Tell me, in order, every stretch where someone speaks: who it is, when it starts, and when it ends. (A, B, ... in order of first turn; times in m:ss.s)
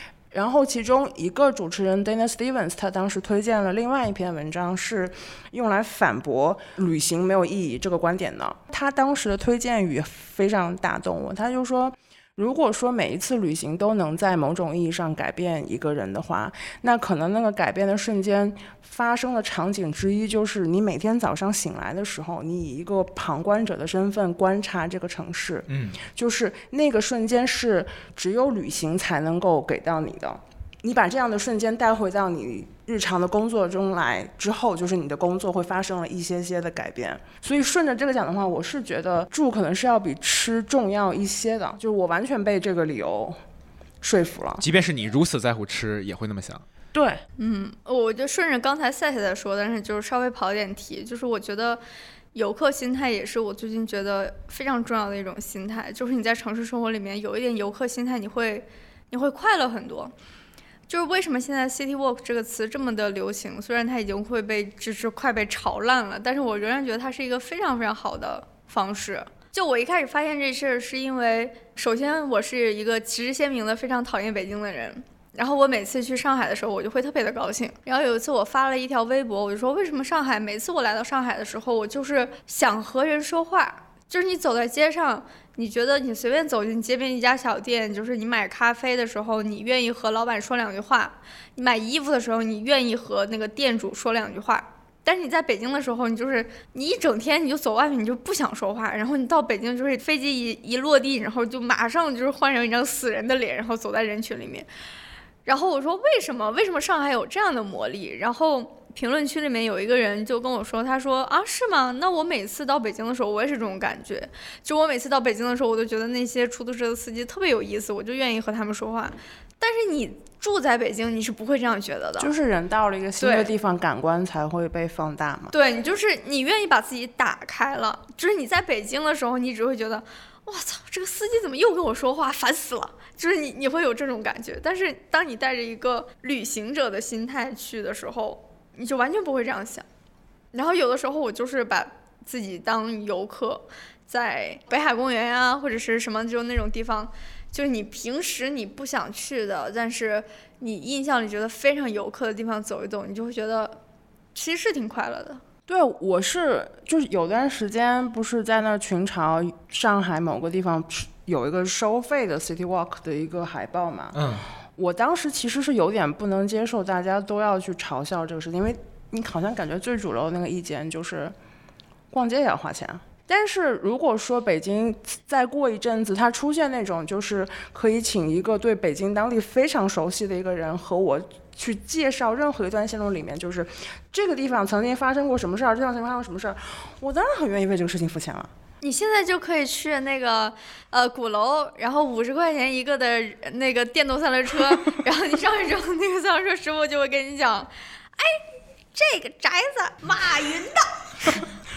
0:00.3-0:43.4 A
0:25.7-0:26.0 B
0:44.0-0:44.6 A
0:44.6-0:46.6 B
0:46.9-0:47.2 A
0:47.4-0:51.8 C
0:52.3-1:00.1 C
1:00.9-1:44.7 C
1:45.5-2:02.3 C
2:02.2-2:05.5 A
2:03.2-2:03.5 C
2:05.5-2:19.9 C
2:20.5-2:33.8 C
2:34.4-2:35.4 C
2:35.7-2:51.3 A
2:44.1-2:44.5 B
2:52.1-3:08.5 A
3:08.8-3:18.4 C
3:18.9-3:21.4 C